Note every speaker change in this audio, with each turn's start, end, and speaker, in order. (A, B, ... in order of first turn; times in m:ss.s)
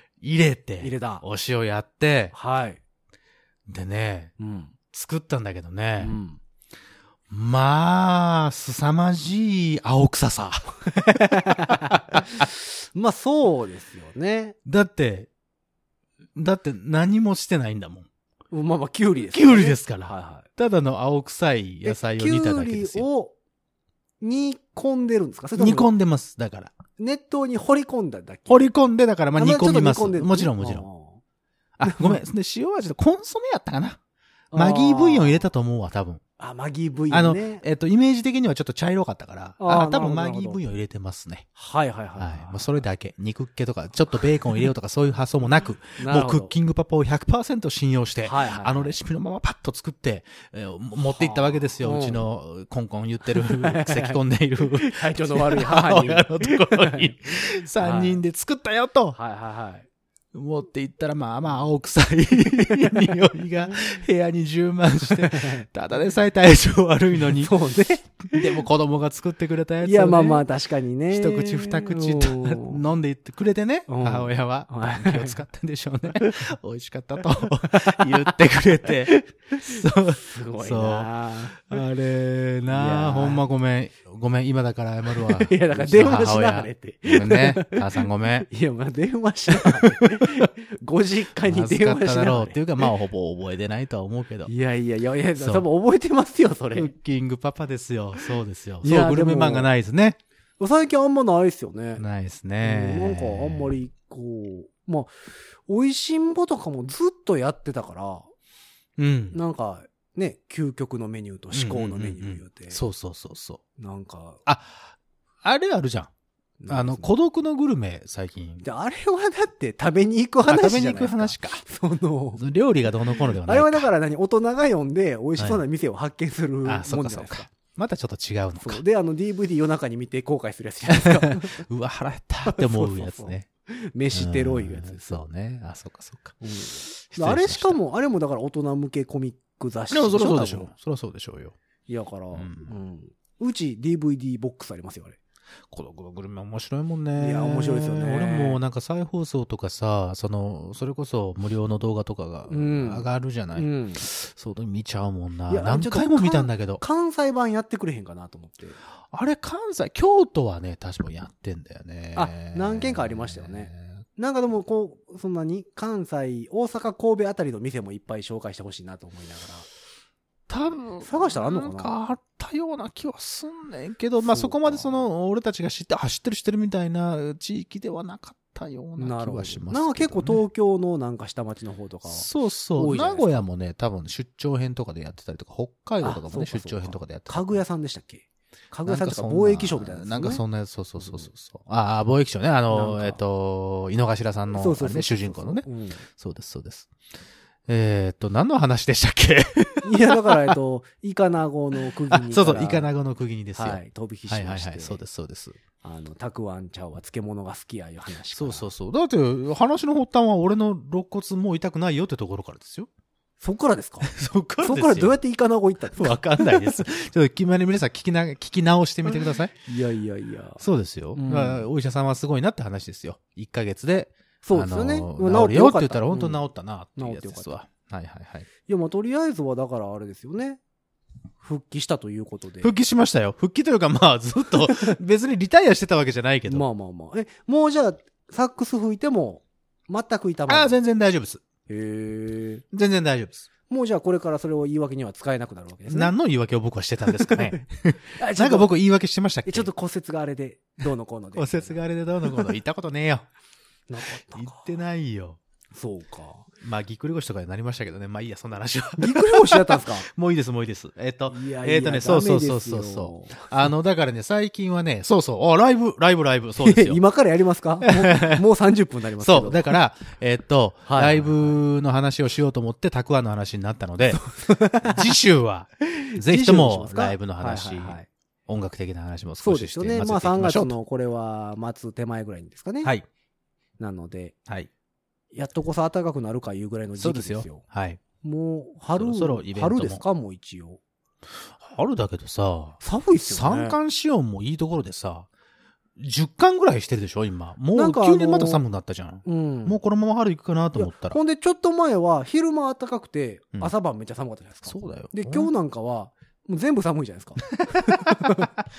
0:00.2-0:02.4 A
0:00.8-0:01.2 B
0:02.3-0:02.8 B
0:03.7-0:04.3 A
0:04.4-0:04.7 B
0:04.9-0:06.1 A
0:06.0-0:06.4 B
0:07.3-0:12.4 A
0:11.2-0:14.6 B
0:14.6-0:15.3 A
0:16.4-0:18.1 A
0:18.5-0:20.5 B
0:19.3-0:23.1 A
0:21.8-0:23.3 B
0:24.2-0:25.9 B
0:25.6-0:26.8 A
0:27.0-0:28.7 B
0:28.5-0:30.9 A
0:29.4-0:31.2 B
0:31.8-0:34.0 A
0:31.8-0:32.2 B
0:34.5-0:35.4 B
0:34.5-0:36.2 A
0:36.4-0:37.6 B
0:37.1-0:41.5 A
0:39.6-0:40.6 B
0:41.6-0:42.8 B
0:42.2-0:59.2 A
0:46.0-0:46.5 B
0:48.2-0:49.0 B
0:51.1-0:52.2 B
0:53.4-0:58.2 B
0:59.1-0:59.9 B
1:00.3-1:07.6 A
1:05.1-1:05.7 B
1:07.2-1:08.6 B
1:08.3-1:10.4 A
1:09.8-1:12.8 B
1:11.1-1:28.5 A
1:13.9-1:15.4 B
1:17.6-1:21.8 B
1:22.7-1:23.4 B
1:25.2-1:32.9 B
1:29.6-1:30.4 A
1:31.4-1:34.5 A
1:34.4-1:36.9 B
1:35.4-1:35.6 A
1:36.7-1:40.2 A
1:38.8-1:39.7 B
1:40.6-1:42.0 B
1:42.0-1:43.8 A
1:42.6-1:48.3 B
1:49.0-1:49.4 A
1:49.3-1:52.8 B
1:51.5-1:53.6 A
1:53.8-1:54.4 B
1:54.4-1:54.9 A
1:55.4-1:56.1 A
1:56.6-1:57.1 B
1:56.7-1:58.6 A
1:58.6-2:02.4 B
2:00.5-2:01.6 A
2:02.4-2:03.9 A
2:03.1-2:07.5 B
2:05.4-2:05.6 A
2:06.6-2:08.8 A
2:08.6-2:11.6 B
2:11.0-2:13.5 A
2:12.5-2:15.2 B
2:14.1-2:16.4 A
2:16.4-2:20.7 B
2:17.1-2:17.8 A
2:19.9-2:21.6 A
2:21.9-2:25.2 B
2:22.3-2:22.7 A
2:25.7-2:36.8 A
2:27.2-2:28.6 B
2:32.5-2:34.0 B
2:35.5-2:38.8 B
2:39.1-2:44.0 A
2:42.1-2:49.6 B
2:50.5-3:00.4 A
2:51.0-2:51.9 B
2:54.2-2:55.0 B
2:59.0-3:03.4 B
3:02.1-3:07.6 A
3:06.0-3:10.4 B
3:08.9-3:16.9 A
3:11.0-3:11.3 B
3:12.7-3:13.2 B
3:14.5-3:16.0 B
3:17.7-3:20.5 A
3:19.8-3:22.9 B
3:22.1-3:25.6 A
3:23.6-3:25.0 B
3:25.8-3:28.7 B
3:28.3-3:32.9 A
3:33.4-3:36.6 B
3:34.0-3:35.2 A
3:36.0-3:39.5 A
3:39.1-3:40.6 B
3:40.6-3:48.5 A
3:41.1-3:41.7 B
3:44.4-3:46.4 B
3:47.0-3:47.5 B
3:48.6-3:50.6 B
3:51.4-3:52.7 B
3:52.6-3:56.6 A
3:56.5-4:00.8 B
4:00.5-4:01.4 A
4:01.7-4:02.6 B
4:02.7-4:03.5 A
4:03.7-4:06.1 B
4:05.9-4:09.7 A
4:07.1-4:08.7 B
4:09.4-4:11.8 B
4:11.4-4:13.2 A
4:13.9-4:14.6 B
4:14.0-4:15.4 A
4:15.7-4:16.5 B
4:16.6-4:27.0 A
4:19.0-4:20.1 B
4:21.3-4:23.4 B
4:26.6-4:29.7 B
4:27.8-4:28.4 A
4:29.2-4:40.7 A
4:30.9-4:31.6 B
4:34.4-4:35.2 B
4:35.9-4:38.1 B
4:39.4-4:42.9 B
4:43.8-4:44.4 B
4:45.3-4:47.6 B
4:47.0-4:48.0 A
4:48.2-4:50.8 B
4:48.9-4:50.0 A
4:51.4-4:55.3 A
4:52.8-4:53.8 B
4:56.0-5:01.2 A
4:57.7-4:58.6 B
4:59.2-4:59.8 B
5:00.8-5:08.5 B
5:04.7-5:05.5 A
5:07.6-5:08.2 A